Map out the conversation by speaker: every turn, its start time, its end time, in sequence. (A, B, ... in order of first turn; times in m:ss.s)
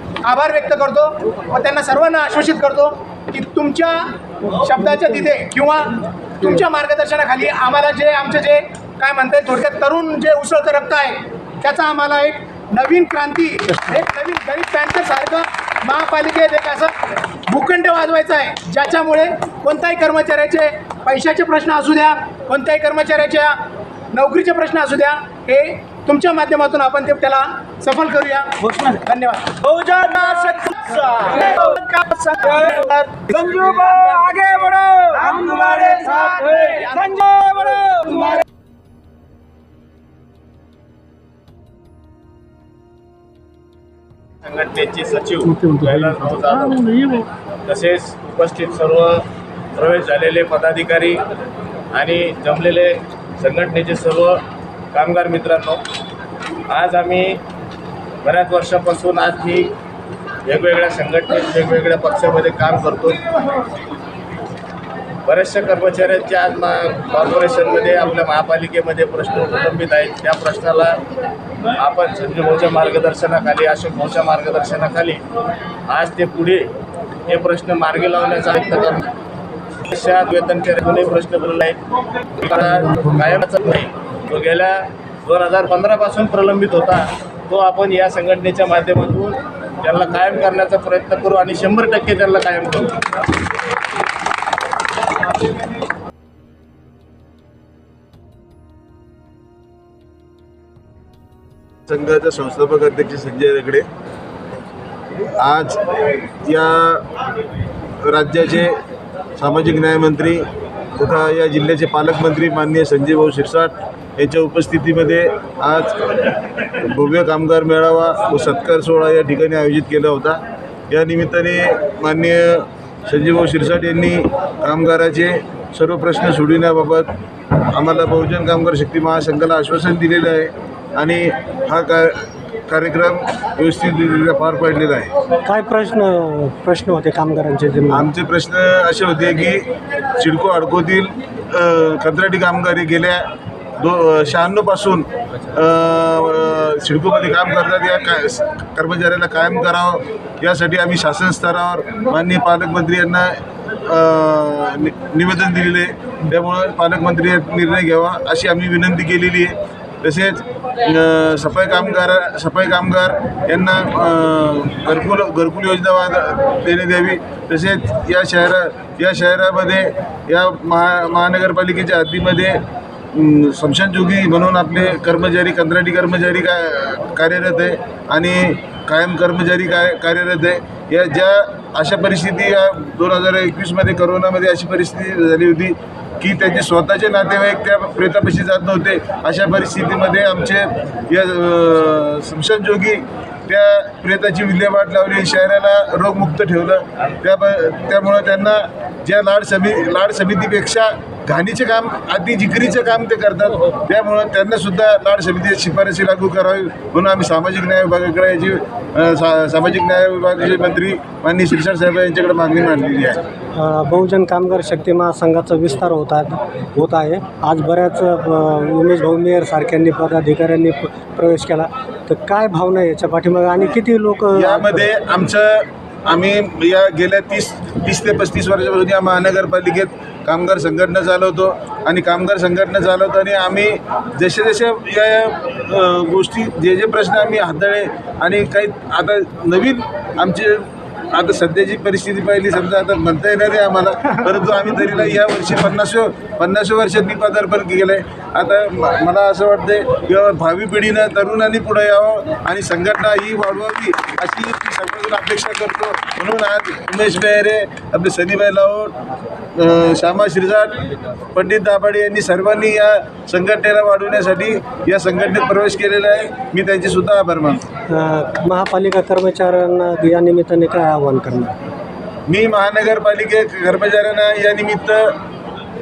0:00.2-0:17.0 A
0:17.5-0:23.6 A
0:24.1-0:29.5 A
0:28.6-0:28.9 B
0:29.6-0:31.6 B
0:31.4-0:38.2 A
0:32.7-0:33.3 B
0:34.4-0:36.8 B
0:44.4-0:51.2 C
0:51.9-0:54.4 C
0:54.9-0:55.8 C
0:56.7-0:57.4 C
0:58.2-0:59.8 C
1:00.5-1:03.2 C
1:05.3-1:11.0 C
1:11.8-1:15.2 C
1:15.9-1:16.7 C
1:17.3-1:19.1 C
1:19.9-1:21.8 C
1:22.4-1:33.0 C
1:41.9-1:43.9 D
1:45.2-1:45.9 D
1:46.4-1:47.1 D
1:48.0-1:48.8 D
1:49.4-2:15.1 D
2:15.5-2:18.1 E
2:17.9-2:52.6 D
2:53.1-3:33.2 D
3:33.6-3:44.9 E
3:44.3-4:19.0 D
4:19.6-4:27.7 D
4:27.9-4:31.5 E
4:32.3-4:35.2 D